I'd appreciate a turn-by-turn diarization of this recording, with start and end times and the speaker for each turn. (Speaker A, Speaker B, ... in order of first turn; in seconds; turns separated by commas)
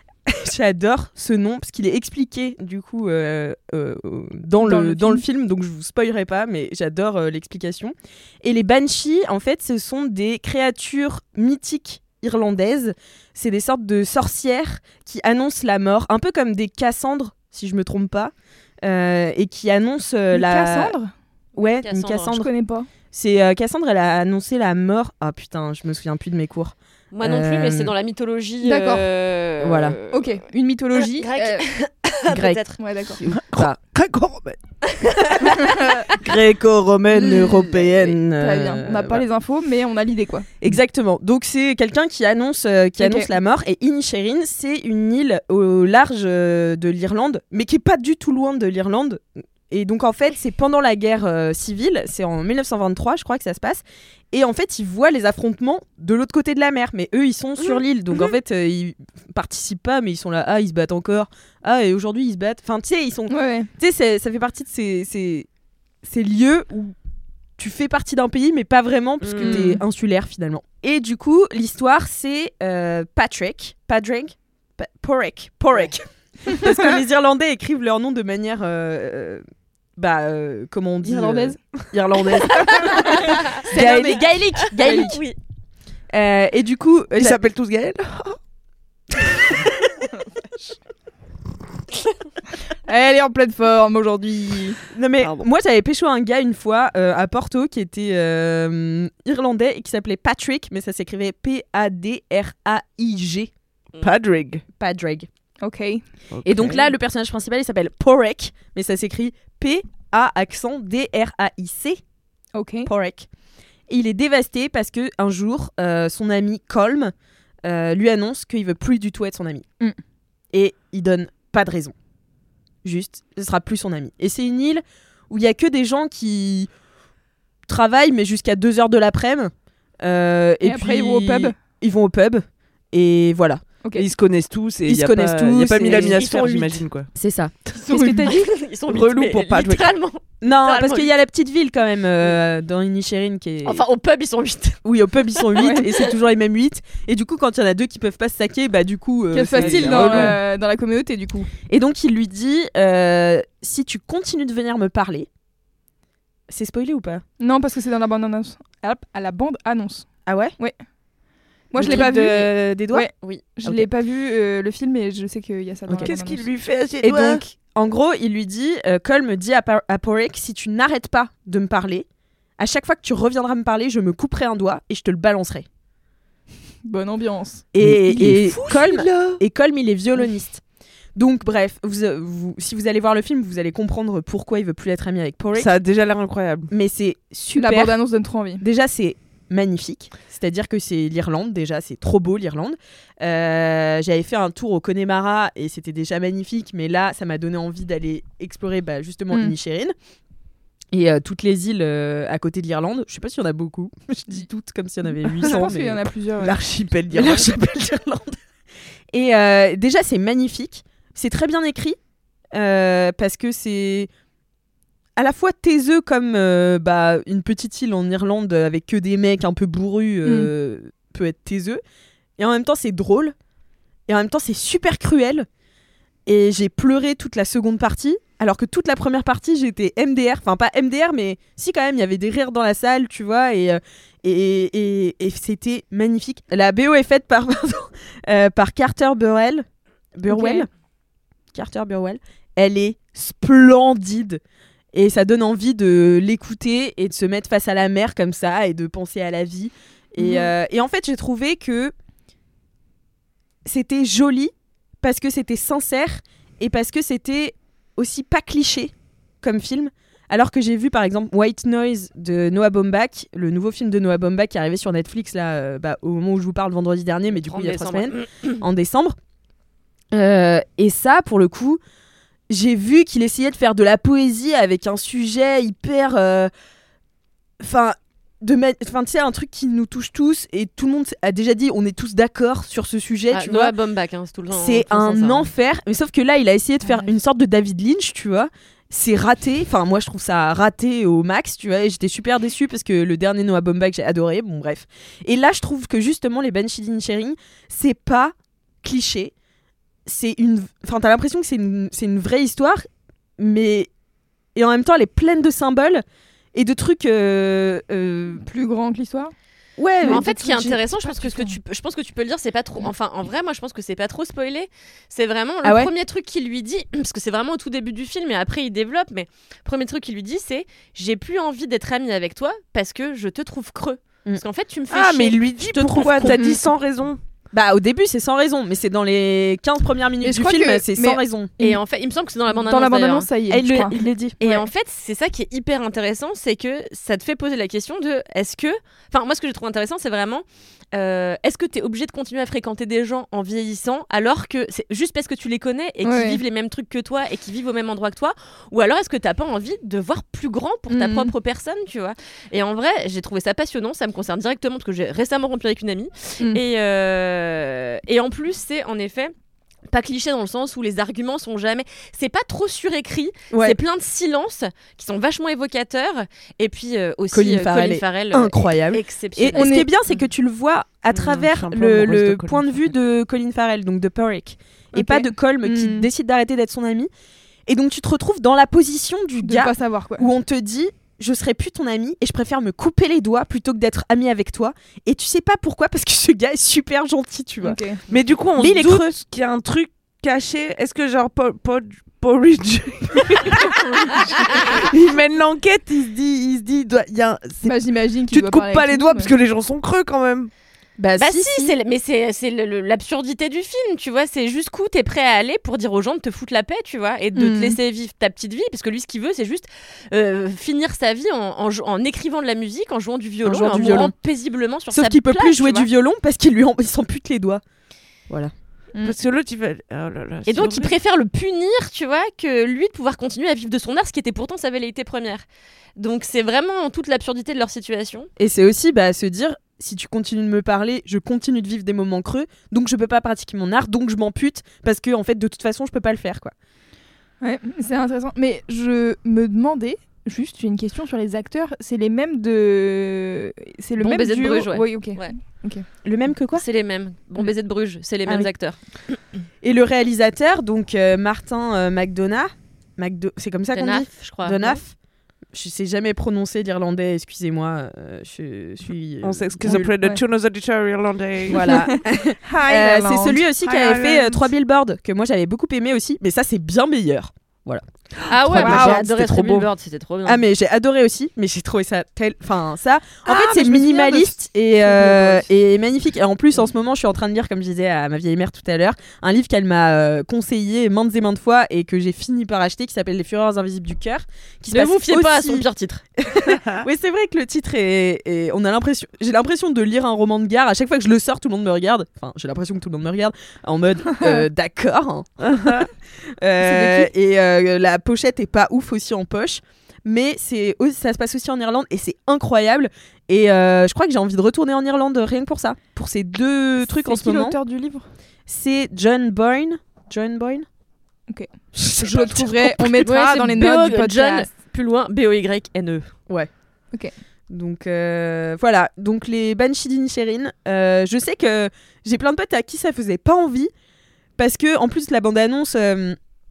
Speaker A: 0.3-20.9, Speaker B: 4.6-5.2, Speaker B: 20.3-21.1, Speaker A: 21.6-22.5, Speaker C: 21.6-22.4, Speaker B: 22.3-22.9, Speaker A: 23.1-27.9, Speaker C: 27.1-30.4, Speaker B: 28.6-29.1, Speaker A: 29.6-30.0, Speaker B: 30.1-31.6, Speaker C: 31.1-32.8, Speaker A: 32.2-33.8, Speaker B: 32.8-33.2, Speaker D: 33.2-34.6, Speaker C: 34.9-35.6, Speaker A: 36.2-39.2, Speaker B: 37.1-37.7, Speaker C: 37.7-38.1, Speaker B: 38.3-40.5, Speaker A: 40.6-65.5, Speaker B: 43.0-43.3, Speaker B: 63.3-63.7, Speaker A: 66.0-66.9, Speaker A: 67.6-79.4, Speaker C: 69.2-69.7, Speaker B: 69.4-69.8, Speaker A: 80.0-85.2, Speaker B: 81.0-81.6, Speaker B: 82.6-84.2, Speaker C: 83.1-85.4, Speaker B: 84.8-85.1, Speaker A: 86.1-87.4, Speaker D: 87.2-88.4, Speaker B: 92.9-94.8, Speaker A: 94.9-103.5, Speaker D: 104.0-104.6, Speaker A: 104.8-105.3, Speaker B: 105.6-106.0, Speaker D: 106.3-106.8, Speaker A: 106.4-112.0, Speaker B: 112.5-112.9, Speaker A: 112.8-113.3, Speaker A: 113.9-117.1, Speaker A: 117.6-119.7, Speaker A: 120.5-121.9, Speaker A: 122.8-126.7, Speaker A: 127.7-133.6, Speaker B: 130.6-131.6, Speaker B: 133.8-134.1, Speaker D: 133.9-137.1, Speaker A: 134.8-136.6, Speaker C: 135.8-136.8, Speaker A: 137.1-138.4, Speaker B: 137.8-138.3, Speaker C: 137.9-141.1, Speaker D: 138.9-139.9, Speaker A: 140.4-143.8, Speaker C: 143.6-144.8, Speaker A: 144.8-150.4, Speaker C: 145.3-146.1, Speaker B: 145.6-145.8, Speaker B: 149.3-151.5, Speaker D: 149.5-150.4, Speaker A: 151.7-155.3, Speaker A: 156.5-157.2, Speaker B: 157.4-160.8, Speaker A: 160.2-160.6, Speaker B: 161.7-166.4, Speaker A: 161.8-163.1, Speaker C: 161.8-162.5, Speaker D: 165.9-167.4, Speaker A: 167.0-172.1, Speaker A: 172.6-175.7, Speaker B: 176.8-177.7, Speaker A: 177.7-180.6, Speaker D: 177.8-179.4, Speaker A: 181.2-185.7, Speaker D: 185.5-186.7, Speaker A: 186.7-187.9, Speaker B: 187.6-188.6, Speaker A: 188.6-199.9, Speaker A: 200.9-206.0, Speaker D: 205.4-205.7, Speaker B: 205.4-206.6, Speaker D: 206.4-207.6, Speaker A: 207.1-208.4, Speaker A: 209.1-212.0, Speaker A: 212.5-214.1, Speaker A: 215.2-221.8, Speaker B: 220.2-220.5, Speaker A: 222.4-223.3, Speaker A: 224.1-225.5, Speaker A: 226.2-240.7, Speaker B: 240.3-240.7, Speaker A: 241.5-244.4, Speaker A: 244.9-251.9, Speaker B: 250.2-250.5, Speaker A: 253.6-269.2, Speaker C: 267.3-268.6, Speaker A: 270.1-271.8, Speaker A: 272.5-276.5, Speaker A: 277.6-283.7, Speaker C: 283.3-285.5, Speaker A: 284.5-299.3, Speaker A: 300.1-302.9, Speaker A: 303.4-303.9, Speaker A: 304.5-308.4, Speaker B: 308.4-309.3, Speaker A: 309.8-311.5, Speaker C: 310.0-326.3, Speaker A: 315.6-315.9, Speaker D: 324.9-327.2, Speaker A: 325.7-326.4, Speaker A: 327.5-331.5, Speaker B: 330.2-331.8, Speaker C: 331.6-333.3, Speaker B: 332.5-334.0, Speaker A: 333.5-334.6, Speaker C: 334.4-359.3, Speaker B: 346.0-346.4, Speaker B: 350.9-351.3, Speaker C: 359.9-369.9, Speaker A: 363.5-363.8, Speaker A: 367.3-377.1, Speaker B: 369.5-369.9, Speaker D: 371.1-372.9, Speaker B: 374.9-376.1, Speaker A: 377.7-387.8, Speaker B: 379.4-380.3, Speaker B: 387.6-388.0, Speaker D: 388.1-400.5, Speaker A: 388.6-389.1, Speaker B: 397.6-399.3, Speaker A: 401.0-401.7, Speaker C: 401.2-415.9, Speaker B: 407.3-407.8, Speaker A: 413.4-414.1, Speaker A: 414.9-417.6, Speaker D: 419.0-420.9, Speaker C: 420.4-425.4, Speaker C: 426.0-428.3, Speaker A: 428.4-436.5, Speaker B: 437.4-445.8, Speaker C: 444.0-445.3, Speaker A: 446.0-446.6, Speaker C: 446.5-448.8, Speaker A: 449.6-454.9, Speaker C: 453.7-454.8, Speaker A: 455.5-459.9, Speaker D: 459.2-461.7, Speaker B: 459.7-460.2, Speaker A: 461.5-467.8, Speaker B: 461.5-463.5, Speaker D: 463.6-464.4, Speaker C: 468.3-470.4, Speaker A: 468.4-469.7, Speaker B: 468.5-469.0, Speaker A: 470.2-485.6, Speaker D: 473.2-474.3, Speaker D: 474.9-475.3, Speaker C: 484.7-486.0, Speaker A: 486.2-495.9, Speaker D: 495.4-495.9, Speaker A: 496.4-507.6, Speaker B: 496.6-497.1, Speaker B: 506.8-508.1, Speaker A: 508.5-510.6, Speaker B: 511.3-514.5, Speaker C: 513.0-516.1, Speaker A: 517.5-523.7, Speaker A: 524.4-526.2